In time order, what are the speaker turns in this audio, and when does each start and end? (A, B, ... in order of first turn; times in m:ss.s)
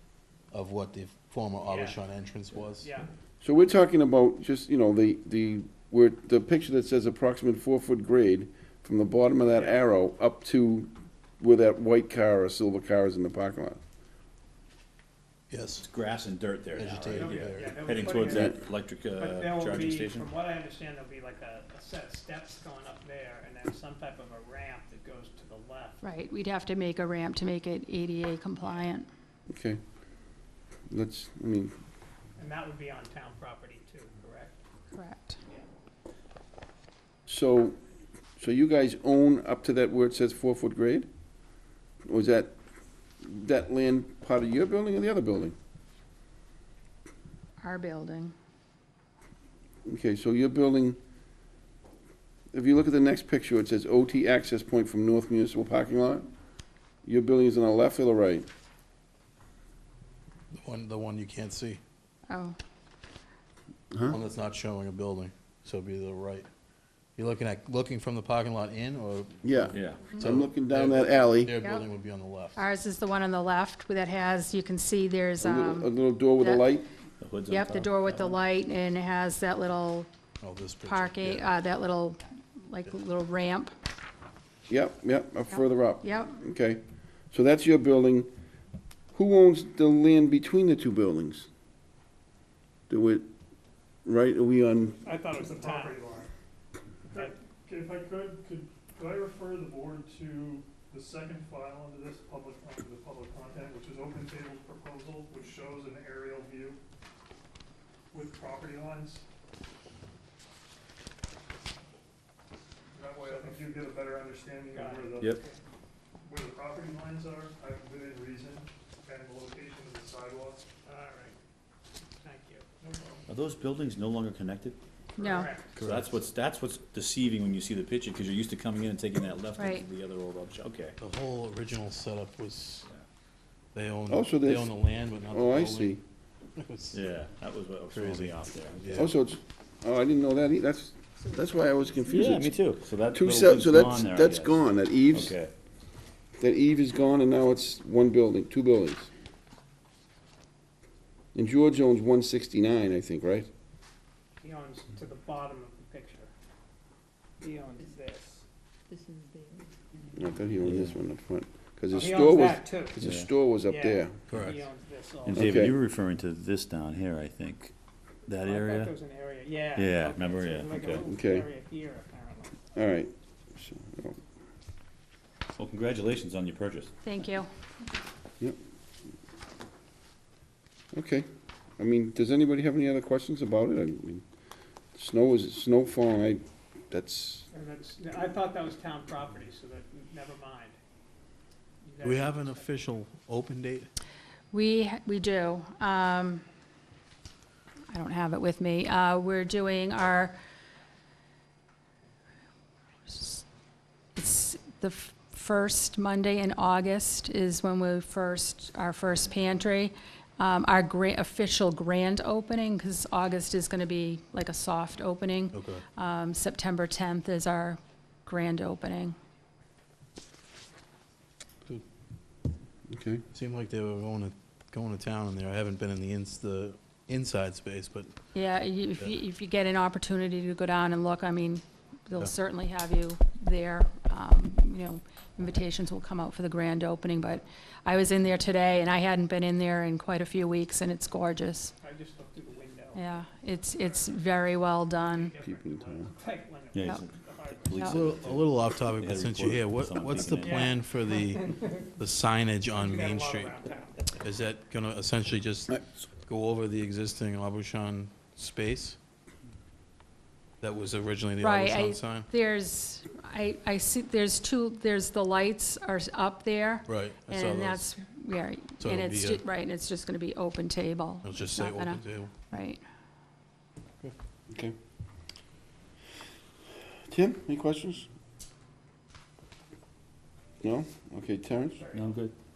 0:00.5-0:02.9 A
0:01.7-0:02.0 B
0:02.8-0:03.1 B
0:03.4-0:13.8 C
0:09.5-0:09.8 B
0:15.5-0:15.8 A
0:15.8-0:20.3 D
0:16.7-0:18.0 A
0:17.1-0:26.0 B
0:18.1-0:18.6 C
0:26.0-0:29.1 E
0:28.6-0:28.9 B
0:29.5-0:29.8 C
0:30.9-0:31.7 C
0:32.4-0:34.6 B
0:34.9-0:35.4 E
0:37.2-0:37.8 C
0:38.4-0:41.1 C
0:42.0-0:42.6 C
0:43.2-0:45.5 C
0:47.6-0:48.3 E
0:49.8-0:51.0 C
0:52.5-0:56.2 C
0:57.0-0:58.4 C
1:00.5-1:01.8 A
1:02.3-1:02.6 E
1:03.9-1:04.2 C
1:04.1-1:06.5 A
1:07.2-1:12.6 A
1:09.4-1:11.5 C
1:09.7-1:10.1 D
1:11.6-1:11.8 E
1:12.5-1:16.7 E
1:15.4-1:16.9 C
1:17.2-1:18.4 D
1:17.5-1:20.1 E
1:20.4-1:21.5 A
1:20.8-1:23.7 E
1:24.7-1:28.3 C
1:26.0-1:26.4 E
1:29.1-1:31.5 C
1:32.9-1:33.2 C
1:34.0-1:35.0 C
1:35.0-1:36.0 B
1:35.3-1:36.3 F
1:37.1-1:46.8 F
1:48.1-1:49.3 F
1:52.9-1:55.2 F
1:53.2-1:53.9 B
1:54.7-1:55.6 B
1:56.2-2:00.6 F
2:00.8-2:01.4 B
2:02.2-2:02.6 B
2:02.8-2:03.2 F
2:03.2-2:04.8 D
2:05.2-2:05.5 E
2:05.2-2:05.7 B
2:05.7-2:06.1 A
2:05.8-2:11.0 D
2:09.6-2:09.8 E
2:11.0-2:12.9 A
2:13.7-2:15.9 A
2:14.1-2:16.0 C
2:16.6-2:17.0 A
2:16.9-2:19.1 D
2:17.9-2:19.1 A
2:18.9-2:22.5 C
2:22.1-2:25.5 D
2:23.1-2:25.3 C
2:26.4-2:29.1 C
2:31.3-2:33.5 C
2:34.4-2:36.3 B
2:37.4-2:38.4 B
2:40.1-2:44.2 C
2:40.6-2:40.9 D
2:41.9-2:43.0 B
2:43.0-2:43.3 D
2:43.6-2:45.5 B
2:44.3-2:44.6 A
2:45.2-2:47.7 D
2:45.3-2:45.8 C
2:48.2-2:49.0 D
2:48.4-2:52.6 B
2:49.7-2:51.0 D
2:51.0-2:51.5 C
2:52.7-2:54.2 C
2:55.5-2:56.9 D
2:57.0-2:57.5 E
3:00.9-3:01.2 C
3:01.8-3:04.2 C
3:04.9-3:07.5 C
3:07.5-3:10.8 B
3:11.8-3:12.7 B
3:12.0-3:13.9 A
3:14.5-3:16.4 E
3:17.9-3:20.4 E
3:23.1-3:23.4 E
3:24.1-3:39.2 E
3:35.5-3:35.8 A
3:42.9-3:43.2 C
3:43.3-3:48.1 A
3:48.3-4:01.7 E
4:01.8-4:03.0 B
4:02.9-4:05.3 E
4:05.0-4:08.0 B
4:05.4-4:06.1 C
4:06.7-4:10.8 D
4:07.8-4:13.5 A
4:10.4-4:11.9 B
4:12.8-4:14.0 B
4:14.2-4:19.0 A
4:20.6-4:22.3 A
4:21.4-4:32.8 E
4:26.8-4:27.9 A
4:28.8-4:29.4 A
4:31.2-4:32.3 A
4:37.1-4:38.1 C
4:40.6-4:41.8 C
4:41.7-4:42.2 B
4:41.9-4:42.3 D